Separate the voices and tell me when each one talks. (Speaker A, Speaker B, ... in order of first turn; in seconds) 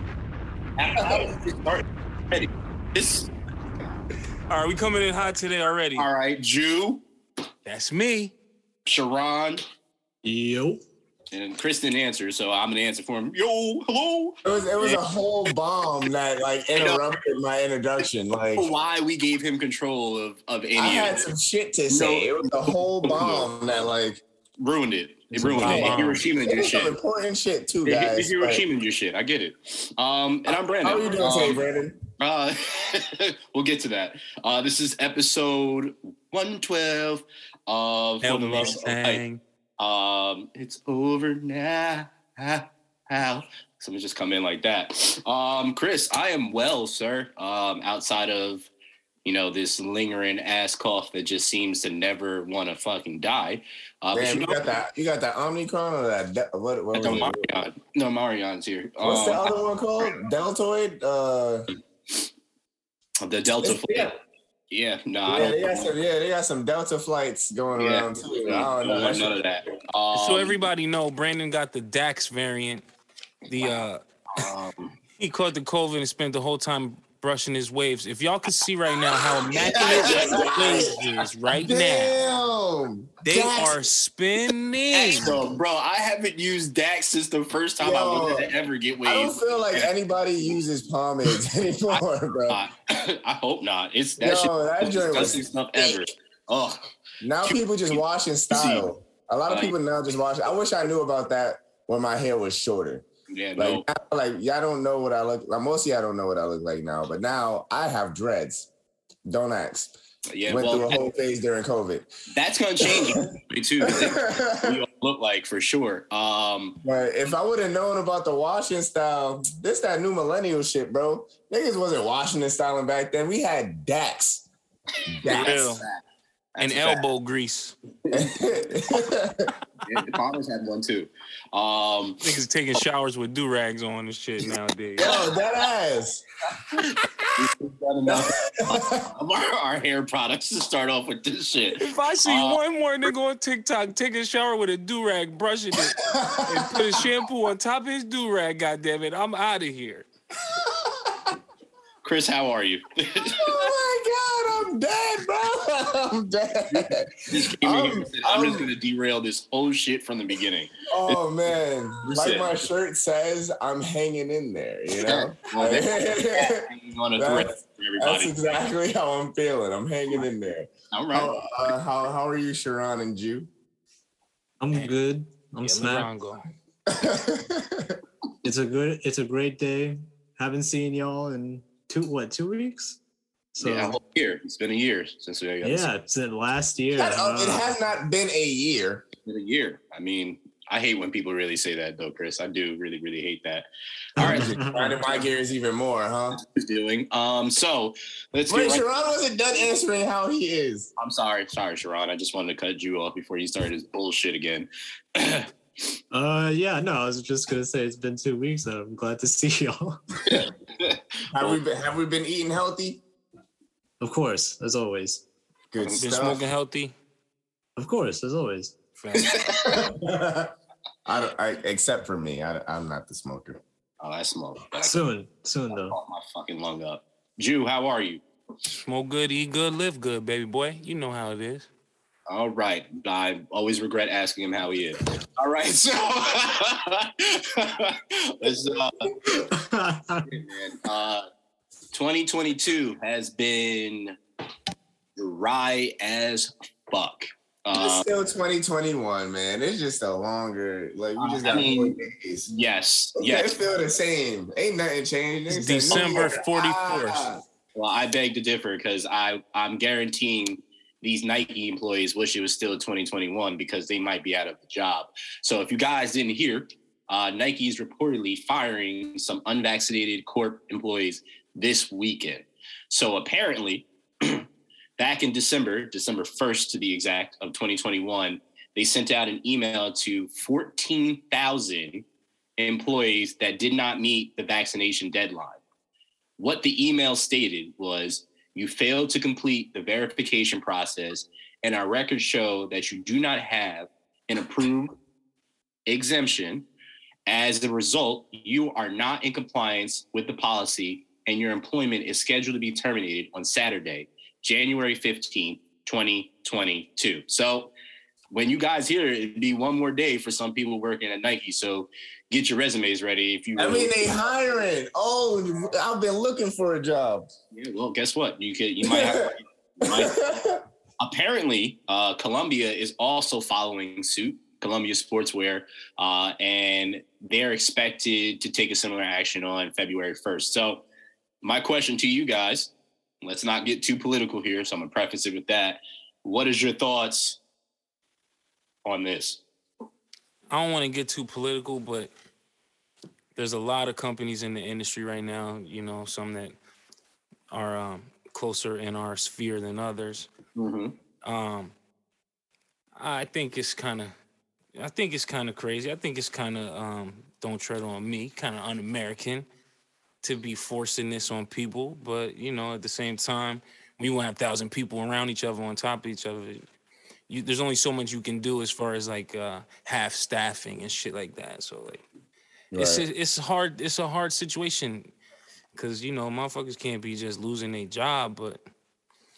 Speaker A: 0.8-3.3, 6.0-7.0, 8.8-9.6, 11.3-15.5, 16.7-17.2, 18.5-21.3, 21.9-23.5, 24.6-26.9, 27.9-31.6, 32.2-39.2, 39.8-48.7, 49.2-54.7, 56.9-59.6, 63.2-64.1, 64.7-65.9, 67.8-70.6, 73.6-73.8, 74.3-75.0, 79.5-81.0, 84.9-89.9, 91.9-96.8, 97.4-98.0, 98.5-98.9, 99.5-99.7, 103.3-103.8, 110.3-111.1, 112.3-116.8, 125.2-126.0, 126.5-127.1, 128.0-128.4, 129.8-132.8, 135.0-135.2, 137.3-142.6, 152.0-153.7, 156.7-161.2, 162.0-162.6, 165.0-168.4, 170.9-171.3, 183.6-185.9, 189.2-193.7, 194.2-195.3, 196.4-198.9, 201.0-205.5, 210.2-211.6, 215.8-216.2, 219.1-219.9, 224.0-225.0, 225.7-228.2, 232.3-239.4, 240.3-241.2, 241.9-244.2, 245.2-248.1, 251.2-252.0, 252.5-253.5, 255.9-256.3, 257.7-274.4, 275.0-282.1, 282.6-285.6, 286.4-294.9, 295.9-296.7, 297.2-307.7, 308.3-314.1, 317.5-320.2, 321.0-330.9, 331.4-337.4, 338.8-339.4, 350.5-350.9
Speaker B: 4.5-6.1, 7.6-8.3, 25.3-26.2, 38.2-39.4, 70.1-72.8, 73.5-74.5, 75.1-82.2, 83.2-85.4, 125.3-125.8, 126.6-127.8, 132.2-135.1, 141.7-150.1, 175.6-176.5, 215.9-216.9, 218.9-219.4, 228.7-231.7, 255.5-257.3, 340.5-342.1, 343.4-346.5, 347.5-350.3, 351.2-351.7, 353.0-354.1, 354.8-359.4, 360.2-366.6, 367.3-372.0, 372.7-375.1, 375.7-378.6
Speaker C: 10.2-10.8, 174.6-176.1, 178.4-183.0, 183.5-184.0, 185.6-187.7, 194.2-195.0, 206.1-210.0, 214.0-215.2, 217.8-218.8, 224.7-226.0, 239.4-240.3
Speaker D: 14.4-18.7, 20.8-24.2, 25.5-28.6, 30.5-32.0, 54.1-57.5, 59.0-61.7, 63.6-64.1, 65.3-69.4, 79.7-81.0, 81.6-83.8, 87.8-88.5, 89.0-92.6, 94.2-96.0, 97.2-103.0, 103.6-108.7, 109.2-109.9, 110.5-112.1, 112.8-113.2, 113.8-114.8, 116.8-124.5, 125.1-125.6, 128.1-129.5, 135.0-136.2, 138.1-139.1, 146.0-147.0, 150.5-151.3, 153.3-158.7, 160.9-166.7, 167.2-173.5, 176.9-178.0, 186.9-189.0, 194.2-196.4, 198.5-200.9, 211.3-213.0, 215.7-216.4, 219.7-220.5, 221.1-223.6, 247.7-252.5, 253.2-257.4, 313.6-317.3, 318.8-319.3, 319.8-320.6, 372.7-373.1